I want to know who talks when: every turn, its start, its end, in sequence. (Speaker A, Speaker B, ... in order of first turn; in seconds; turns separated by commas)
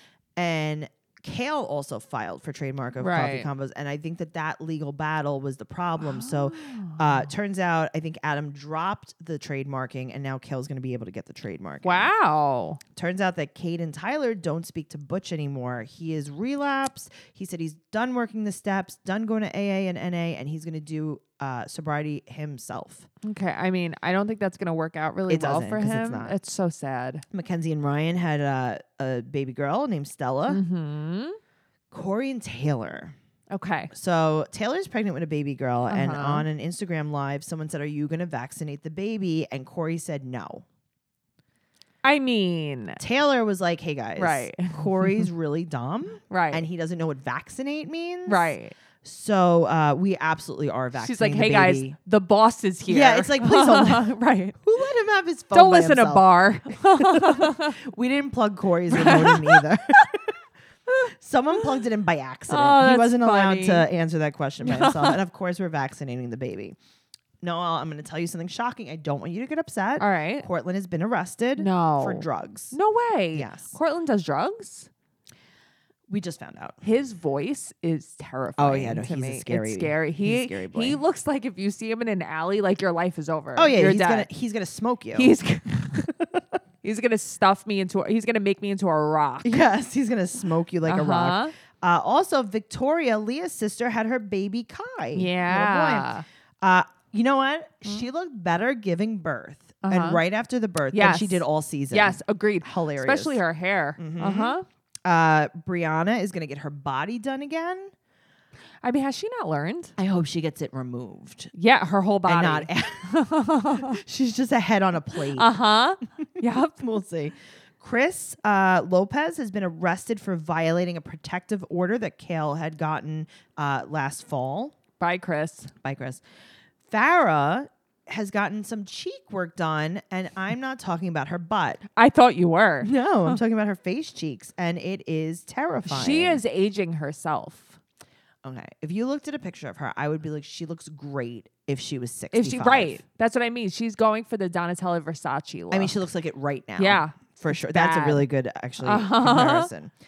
Speaker A: 0.4-12.1, Speaker B: 3.0-3.5, Speaker B: 6.0-7.3, Speaker B: 11.8-12.8, Speaker A: 12.9-23.1, Speaker B: 23.2-27.2, Speaker A: 25.3-26.4, Speaker A: 27.3-30.6, Speaker B: 30.5-31.4, Speaker A: 31.9-33.1, Speaker B: 33.5-33.9, Speaker A: 33.9-40.6, Speaker B: 35.9-36.5, Speaker B: 42.0-43.0, Speaker A: 43.0-51.9, Speaker B: 44.2-45.3, Speaker B: 46.3-46.6, Speaker B: 48.3-48.7, Speaker B: 51.0-54.6, Speaker A: 52.9-54.1, Speaker A: 54.6-60.3, Speaker B: 55.5-57.8, Speaker B: 58.9-60.0, Speaker A: 61.2-66.8, Speaker B: 62.5-63.9, Speaker B: 64.6-65.2, Speaker A: 67.4-72.8, Speaker B: 70.0-70.5, Speaker B: 71.6-74.9, Speaker A: 73.3-73.8, Speaker A: 76.1-76.8, Speaker B: 76.8-84.3, Speaker A: 78.6-81.0, Speaker A: 83.5-85.3, Speaker B: 85.1-86.1, Speaker A: 86.1-86.4, Speaker B: 86.8-89.5, Speaker A: 89.4-103.4, Speaker B: 90.9-91.5, Speaker B: 95.1-96.2, Speaker B: 99.8-100.2, Speaker B: 100.9-104.6, Speaker A: 104.0-107.9, Speaker B: 108.8-109.9, Speaker A: 110.0-111.5, Speaker B: 111.5-114.0, Speaker A: 112.3-113.1, Speaker A: 113.8-115.5, Speaker B: 115.3-116.8, Speaker A: 116.7-124.7, Speaker B: 125.0-125.7, Speaker A: 125.8-126.2, Speaker A: 126.9-131.8, Speaker B: 131.9-133.4, Speaker A: 132.8-136.4, Speaker B: 135.9-137.8, Speaker A: 138.4-143.0, Speaker B: 142.3-146.0, Speaker A: 145.7-149.9, Speaker B: 146.8-148.2, Speaker B: 148.8-149.7